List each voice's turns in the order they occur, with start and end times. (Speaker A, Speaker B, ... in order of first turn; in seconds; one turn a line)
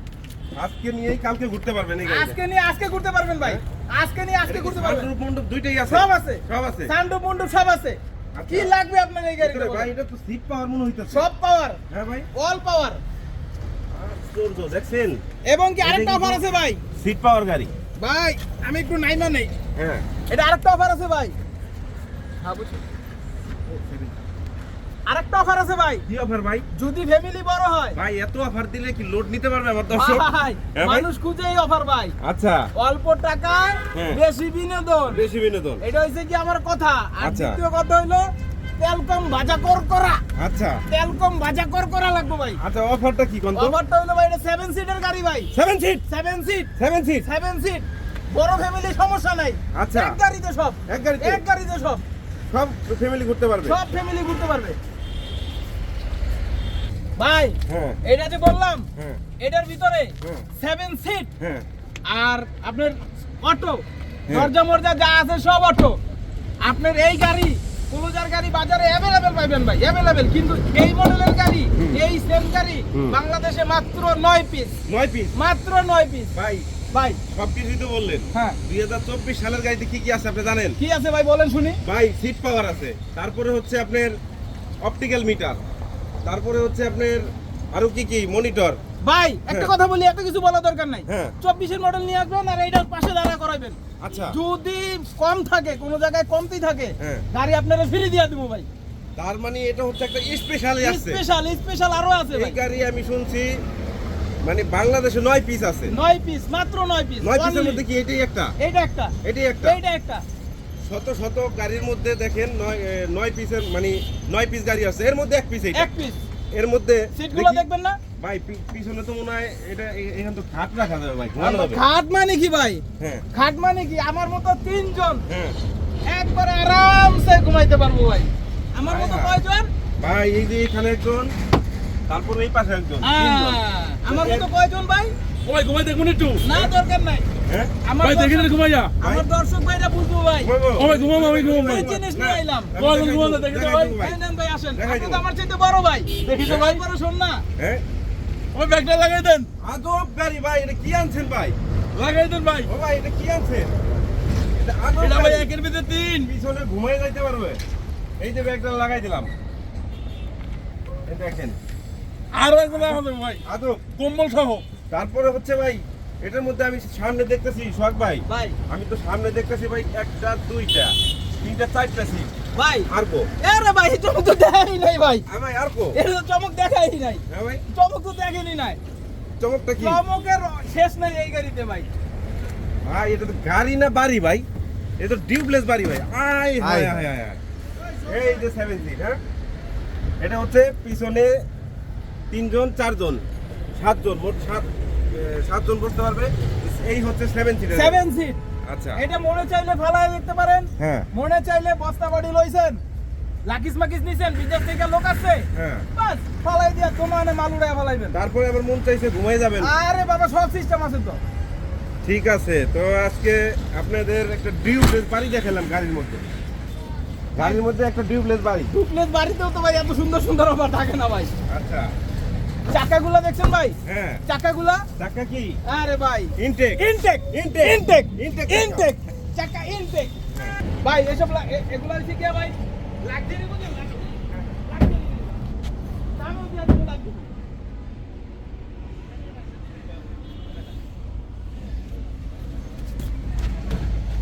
Speaker A: 0.5-2.4
Speaker B: 2.0-5.1
Speaker A: 4.5-6.9
Speaker B: 5.9-9.9
Speaker A: 8.3-8.7
Speaker A: 9.4-11.3
Speaker B: 11.1-11.8
Speaker A: 11.9-12.3
Speaker B: 12.3-13.0
Speaker A: 13.9-15.2
Speaker B: 15.5-16.8
Speaker A: 15.8-16.4
Speaker A: 16.9-17.7
Speaker B: 18.0-19.5
Speaker A: 19.8-20.0
Speaker B: 20.3-21.3
Speaker B: 22.4-22.8
Speaker A: 23.7-24.1
Speaker B: 25.1-26.0
Speaker A: 26.1-26.6
Speaker B: 26.7-28.0
Speaker A: 27.9-31.1
Speaker B: 29.9-32.1
Speaker A: 32.2-32.7
Speaker B: 32.8-35.2
Speaker A: 33.9-34.2
Speaker A: 35.1-35.8
Speaker B: 35.8-38.2
Speaker A: 37.2-37.6
Speaker B: 38.8-40.2
Speaker A: 40.4-40.8
Speaker B: 40.9-42.6
Speaker A: 42.6-43.8
Speaker B: 43.5-45.5
Speaker A: 45.5-46.0
Speaker B: 46.1-46.7
Speaker A: 46.8-47.3
Speaker B: 47.2-52.0
Speaker A: 49.7-50.2
Speaker A: 50.9-51.4
Speaker A: 52.5-53.8
Speaker B: 53.6-54.8
Speaker B: 57.2-58.9
Speaker A: 57.7-58.0
Speaker A: 59.0-59.2
Speaker B: 59.4-61.3
Speaker A: 61.4-61.6
Speaker B: 62.0-66.0
Speaker B: 66.6-74.7
Speaker A: 74.9-75.3
Speaker B: 75.3-76.3
Speaker A: 76.3-76.7
Speaker B: 76.9-77.2
Speaker A: 77.3-80.8
Speaker B: 80.8-81.8
Speaker A: 81.8-84.1
Speaker A: 84.8-85.6
Speaker A: 86.2-88.8
Speaker B: 89.0-98.7
Speaker A: 91.1-91.3
Speaker A: 94.0-94.4
Speaker A: 97.0-97.2
Speaker A: 99.2-101.2
Speaker B: 100.8-102.6
Speaker A: 102.3-103.5
Speaker A: 104.4-105.9
Speaker B: 105.9-107.8
Speaker A: 107.2-108.5
Speaker B: 108.6-110.2
Speaker A: 109.2-109.8
Speaker A: 110.8-115.9
Speaker B: 115.7-116.2
Speaker A: 116.5-117.6
Speaker B: 117.1-118.0
Speaker A: 118.2-121.8
Speaker B: 121.4-125.2
Speaker A: 125.3-125.5
Speaker B: 126.1-129.7
Speaker A: 128.9-129.3
Speaker A: 130.0-131.3
Speaker A: 132.1-134.5
Speaker B: 133.0-135.1
Speaker C: 135.4-136.4
Speaker B: 136.4-137.3
Speaker A: 137.5-137.7
Speaker B: 137.8-140.5
Speaker C: 138.0-138.9
Speaker A: 139.0-139.2
Speaker A: 140.4-144.2
Speaker C: 140.8-141.9
Speaker B: 141.2-147.4
Speaker C: 142.7-143.9
Speaker A: 144.7-145.2
Speaker A: 146.2-146.7
Speaker A: 147.6-147.8
Speaker B: 148.5-149.5
Speaker A: 149.6-151.6
Speaker C: 152.0-152.6
Speaker B: 152.0-152.7
Speaker A: 152.7-153.7
Speaker A: 154.5-155.5
Speaker B: 155.0-156.3
Speaker A: 156.2-157.6
Speaker A: 158.2-159.3
Speaker A: 161.1-161.6
Speaker B: 162.3-163.4
Speaker C: 162.5-163.3
Speaker A: 163.4-163.8
Speaker C: 164.0-164.6
Speaker A: 164.8-172.3
Speaker B: 168.3-168.6
Speaker B: 172.5-172.9
Speaker A: 172.9-173.3
Speaker B: 173.4-175.2
Speaker A: 175.3-176.0
Speaker B: 175.9-178.8
Speaker A: 177.3-177.6
Speaker A: 179.4-180.0
Speaker B: 179.8-181.9
Speaker A: 182.8-184.4
Speaker A: 185.0-187.4
Speaker B: 187.8-188.4
Speaker A: 188.1-189.2
Speaker A: 190.2-191.4
Speaker A: 192.3-193.2
Speaker A: 193.7-198.0
Speaker B: 197.7-198.4
Speaker A: 198.7-199.0
Speaker B: 198.9-202.8
Speaker A: 200.8-201.1
Speaker B: 203.4-208.2
Speaker A: 205.5-205.9
Speaker A: 208.1-209.7
Speaker B: 209.6-211.2
Speaker A: 212.0-216.2
Speaker A: 217.3-218.7
Speaker B: 218.7-221.3
Speaker A: 221.5-221.9
Speaker B: 222.7-223.8
Speaker A: 223.8-224.2
Speaker B: 224.3-224.8
Speaker A: 225.0-225.6
Speaker B: 225.6-230.1
Speaker A: 226.4-228.9
Speaker B: 230.8-235.4
Speaker B: 236.2-237.3